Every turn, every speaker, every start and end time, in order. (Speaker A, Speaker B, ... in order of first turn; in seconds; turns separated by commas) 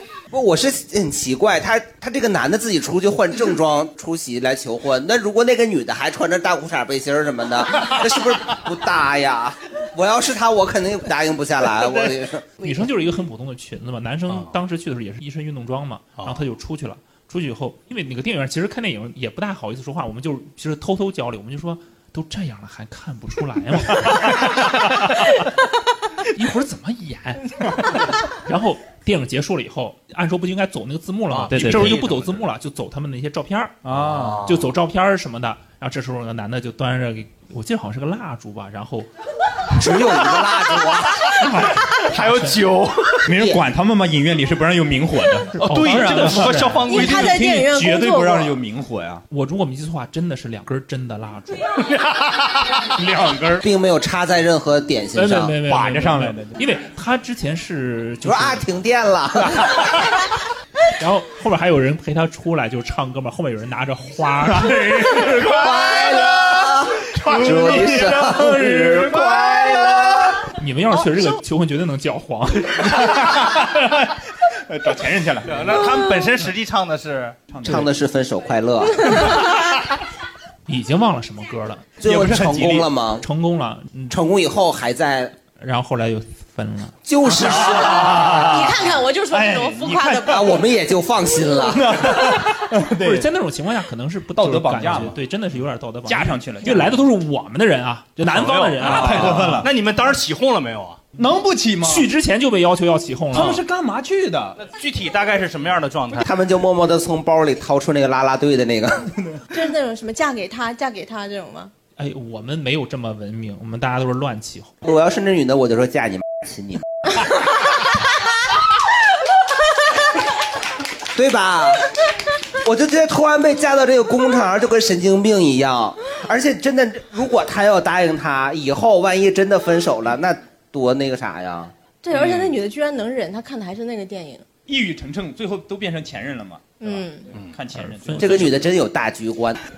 Speaker A: 0.3-12.5, Speaker B: 12.6-25.2, Speaker C: 16.2-16.4, Speaker B: 26.4-33.8, Speaker C: 31.3-32.4, Speaker D: 31.5-32.1, Speaker D: 33.8-34.5, Speaker C: 33.9-34.7, Speaker B: 34.4-39.1, Speaker A: 39.8-41.3, Speaker B: 41.4-42.6, Speaker C: 41.7-43.3, Speaker D: 43.2-49.2, Speaker A: 43.4-43.6, Speaker B: 45.6-46.9, Speaker C: 45.6-47.5, Speaker E: 46.9-48.6, Speaker B: 49.3-51.7, Speaker D: 52.9-53.6, Speaker A: 53.6-55.6, Speaker B: 55.1-58.7, Speaker D: 55.7-56.6, Speaker A: 58.2-59.9, Speaker B: 61.0-65.2, Speaker D: 64.5-69.9, Speaker A: 65.4-70.4, Speaker B: 70.6-73.2, Speaker D: 72.8-74.1, Speaker D: 74.7-75.9, Speaker C: 75.5-77.4, Speaker D: 77.5-77.9, Speaker A: 77.6-79.2, Speaker B: 80.7-82.0, Speaker A: 82.0-83.3, Speaker D: 82.0-82.9, Speaker B: 83.2-84.2, Speaker A: 84.1-85.3, Speaker B: 85.6-87.0, Speaker A: 87.0-88.5, Speaker D: 87.2-90.6, Speaker E: 87.9-90.6, Speaker A: 90.2-92.2, Speaker D: 91.7-93.3, Speaker B: 93.0-99.6, Speaker D: 94.4-95.2, Speaker D: 96.0-97.0, Speaker C: 98.2-101.0, Speaker D: 98.8-100.1, Speaker D: 101.2-102.1, Speaker B: 101.8-103.6, Speaker D: 103.3-104.6, Speaker C: 104.6-106.2, Speaker A: 106.2-109.1, Speaker E: 109.5-111.7, Speaker B: 112.0-114.7, Speaker A: 114.8-117.0, Speaker A: 121.1-121.9, Speaker A: 122.6-131.7, Speaker E: 132.0-134.5, Speaker C: 132.1-132.6, Speaker D: 134.7-138.6, Speaker E: 136.8-137.3, Speaker B: 137.7-138.5, Speaker A: 138.2-139.6